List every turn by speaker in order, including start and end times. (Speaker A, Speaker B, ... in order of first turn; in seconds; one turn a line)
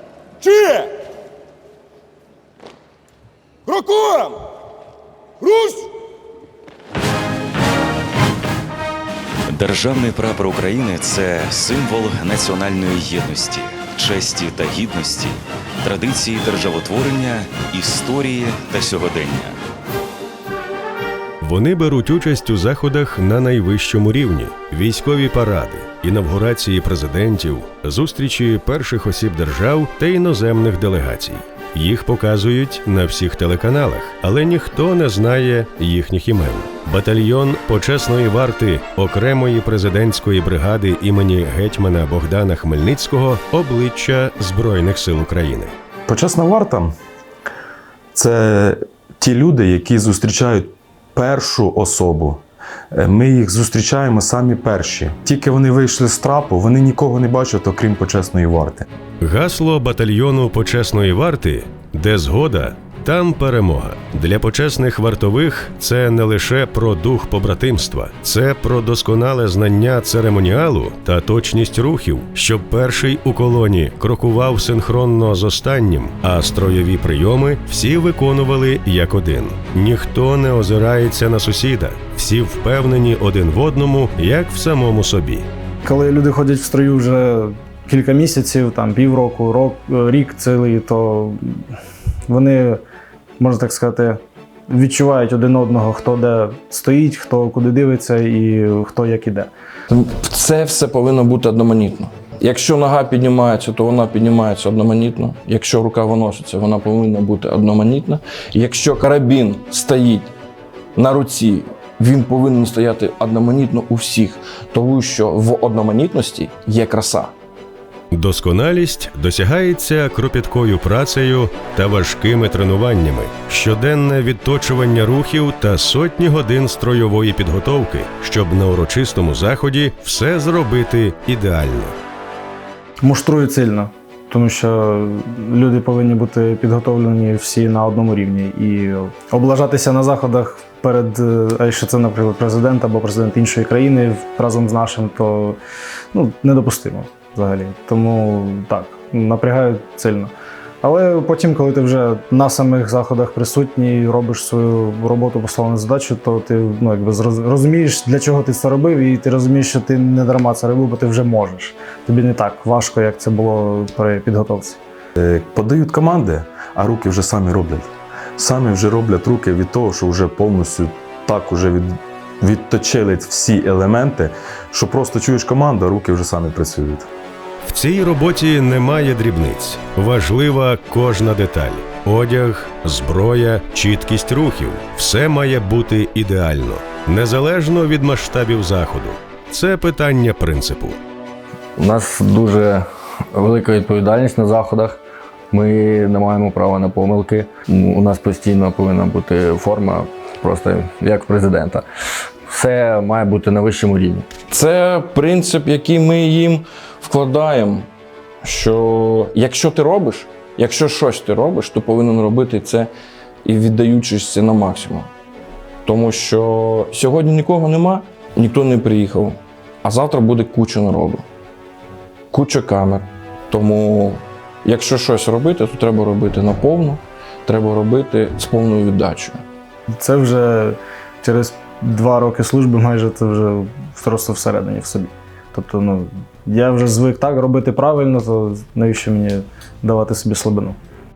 Speaker A: 9.5-19.5
Speaker B: 21.4-45.7
Speaker C: 46.1-46.9
Speaker C: 48.1-58.9
Speaker B: 59.2-85.5
Speaker D: 85.8-91.7
Speaker D: 92.3-92.8
Speaker D: 93.4-99.5
Speaker E: 99.9-110.3
Speaker E: 111.0-117.3
Speaker B: 118.1-131.9
Speaker D: 133.0-145.6
Speaker D: 146.1-164.8
Speaker C: 165.2-177.1
Speaker B: 177.7-191.0
Speaker F: 191.8-195.0
Speaker F: 195.5-201.8
Speaker F: 202.5-204.3
Speaker E: 204.4-207.9
Speaker E: 208.4-212.9
Speaker E: 213.4-215.1
Speaker E: 215.8-221.2
Speaker E: 222.3-229.4
Speaker D: 230.0-240.8